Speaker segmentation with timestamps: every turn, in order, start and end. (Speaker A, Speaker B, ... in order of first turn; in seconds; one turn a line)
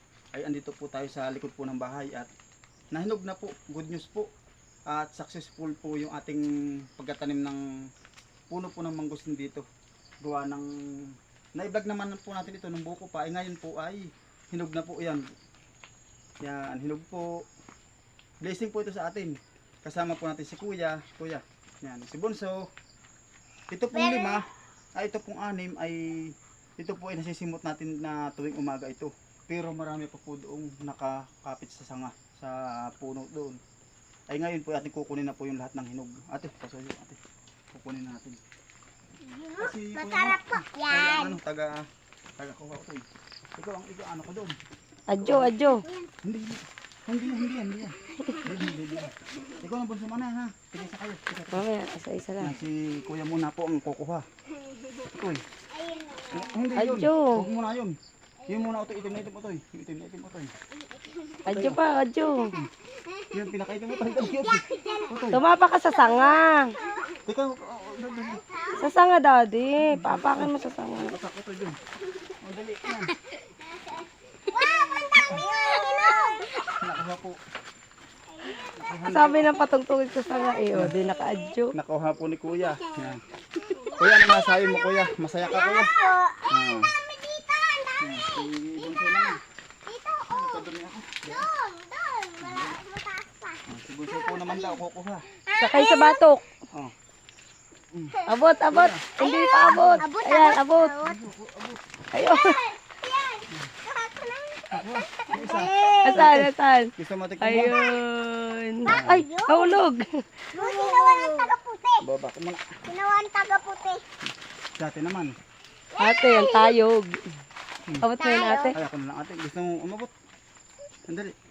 Speaker A: 0.3-2.3
Speaker A: 2.9-4.3
Speaker A: 4.9-7.9
Speaker A: 8.5-9.7
Speaker A: 10.2-15.2
Speaker A: 16.4-17.5
Speaker A: 18.4-22.7
Speaker A: 23.7-33.6
Speaker B: 23.9-24.4
Speaker A: 34.3-37.2
Speaker A: 37.7-38.4
Speaker B: 39.2-41.4
Speaker A: 39.6-44.6
Speaker C: 45.1-45.8
Speaker A: 45.2-45.5
Speaker B: 45.8-46.1
Speaker A: 46.2-51.7
Speaker C: 51.5-52.5
Speaker A: 52.4-54.2
Speaker A: 55.1-55.4
Speaker B: 55.7-57.5
Speaker A: 56.3-58.0
Speaker C: 56.8-57.5
Speaker B: 58.4-59.2
Speaker A: 58.5-60.5
Speaker B: 60.8-61.5
Speaker C: 61.5-62.5
Speaker A: 61.5-61.8
Speaker B: 62.4-67.2
Speaker A: 63.3-65.4
Speaker C: 65.3-66.7
Speaker A: 67.3-68.4
Speaker B: 67.9-69.0
Speaker C: 68.8-71.2
Speaker A: 69.8-71.8
Speaker A: 72.4-73.1
Speaker B: 74.5-76.8
Speaker A: 75.2-75.4
Speaker A: 76.8-77.4
Speaker B: 78.4-79.7
Speaker A: 78.8-79.6
Speaker C: 79.0-81.7
Speaker B: 80.2-81.5
Speaker A: 81.7-83.2
Speaker B: 82.5-90.7
Speaker A: 83.9-85.9
Speaker A: 86.5-86.9
Speaker A: 88.0-89.4
Speaker A: 90.3-91.5
Speaker B: 91.2-94.8
Speaker A: 92.4-92.8
Speaker A: 93.7-95.2
Speaker B: 95.5-96.2
Speaker C: 95.6-96.4
Speaker C: 98.3-100.9
Speaker A: 98.7-99.1
Speaker B: 99.2-101.2
Speaker A: 99.7-100.0
Speaker A: 101.0-101.8
Speaker C: 102.1-102.6
Speaker B: 102.2-106.3
Speaker A: 104.7-107.8
Speaker C: 106.0-111.5
Speaker B: 107.6-108.0
Speaker B: 108.8-109.9
Speaker A: 108.9-109.2
Speaker B: 110.5-112.0
Speaker A: 112.0-112.7
Speaker B: 112.9-114.0
Speaker A: 114.8-115.3
Speaker B: 115.9-116.8
Speaker C: 116.0-117.2
Speaker C: 118.0-118.8
Speaker B: 118.2-118.8
Speaker A: 118.7-120.1
Speaker A: 121.1-121.3